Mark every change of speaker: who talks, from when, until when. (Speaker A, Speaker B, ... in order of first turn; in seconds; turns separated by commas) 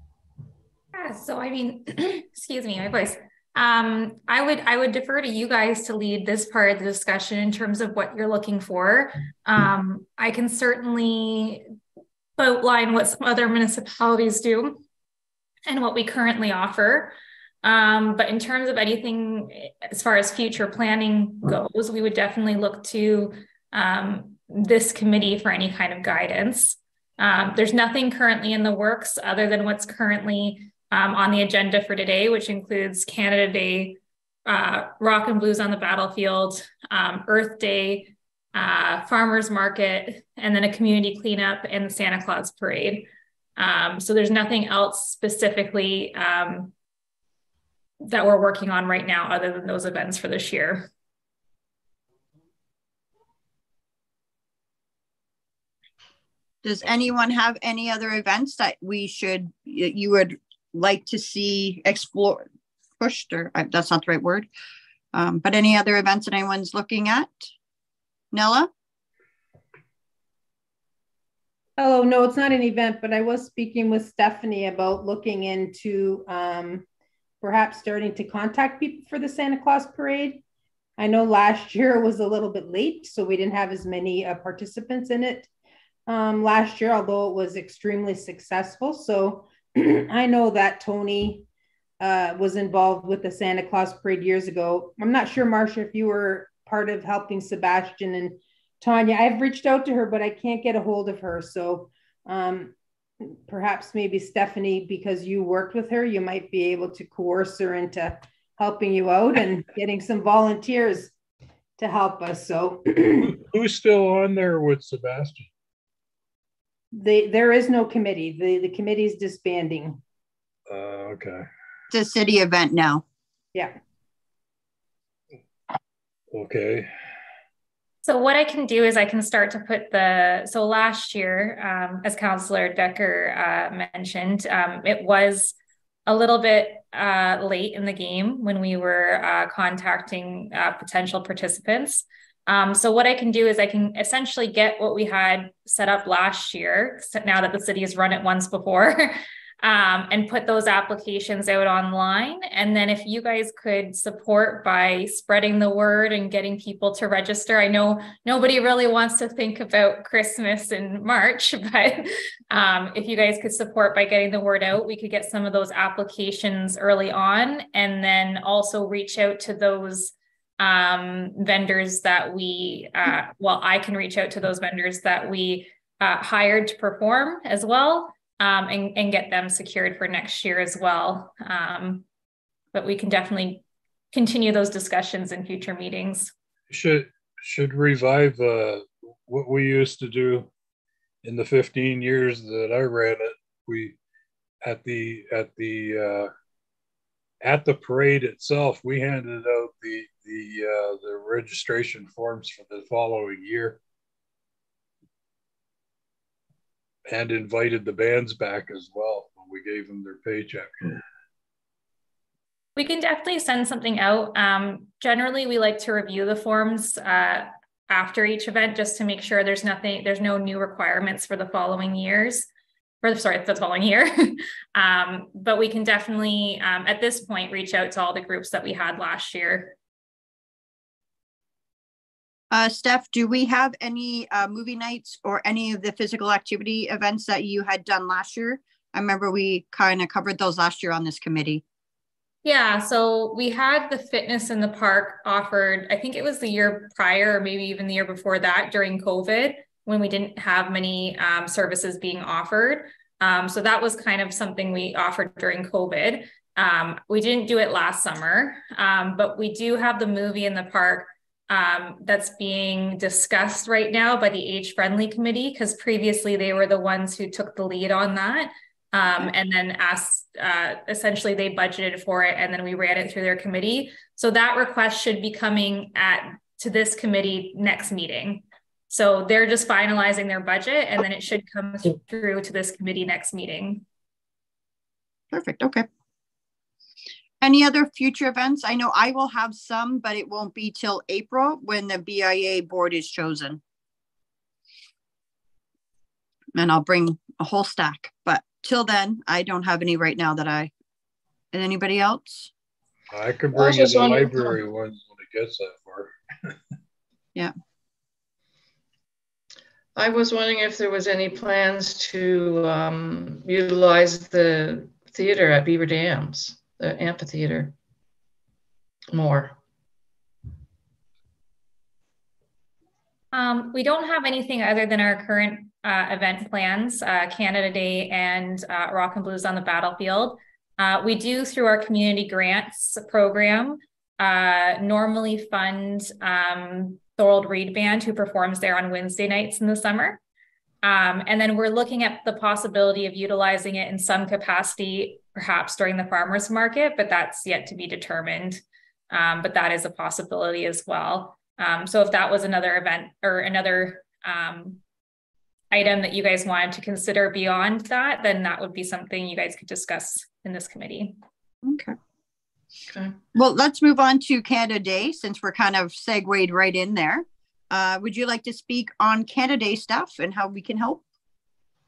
Speaker A: 0.9-11.6, Speaker A: 12.4-14.8, Speaker A: 15.7-46.7, Speaker A: 48.0-50.9, Speaker B: 56.6-62.4, Speaker B: 63.0-64.5, Speaker B: 65.1-67.5, Speaker B: 68.3-68.7, Speaker C: 71.8-76.8, Speaker C: 77.4-80.4, Speaker C: 81.0-85.5, Speaker C: 86.1-91.5, Speaker C: 92.0-111.1, Speaker C: 111.8-113.4, Speaker D: 113.3-115.5, Speaker C: 116.9-120.0, Speaker D: 120.7-121.5, Speaker B: 121.9-123.0, Speaker D: 126.3-126.9, Speaker A: 128.0-135.6, Speaker A: 136.1-182.1, Speaker A: 182.7-186.3, Speaker D: 186.7-190.5, Speaker D: 191.2-194.0, Speaker D: 194.6-196.3, Speaker D: 197.4-203.8, Speaker D: 207.1-211.0, Speaker A: 212.8-222.5, Speaker A: 223.0-229.8, Speaker B: 232.5-241.6, Speaker A: 242.4-283.8, Speaker B: 285.3-285.9, Speaker B: 287.4-293.6, Speaker B: 296.6-300.7, Speaker B: 301.5-302.5, Speaker D: 303.1-306.6, Speaker E: 303.5-304.6, Speaker E: 310.0-317.8, Speaker E: 319.1-319.6, Speaker A: 323.3-340.2, Speaker A: 340.8-354.8, Speaker A: 355.7-361.2, Speaker B: 361.6-361.9, Speaker E: 362.9-363.2, Speaker B: 363.4-371.0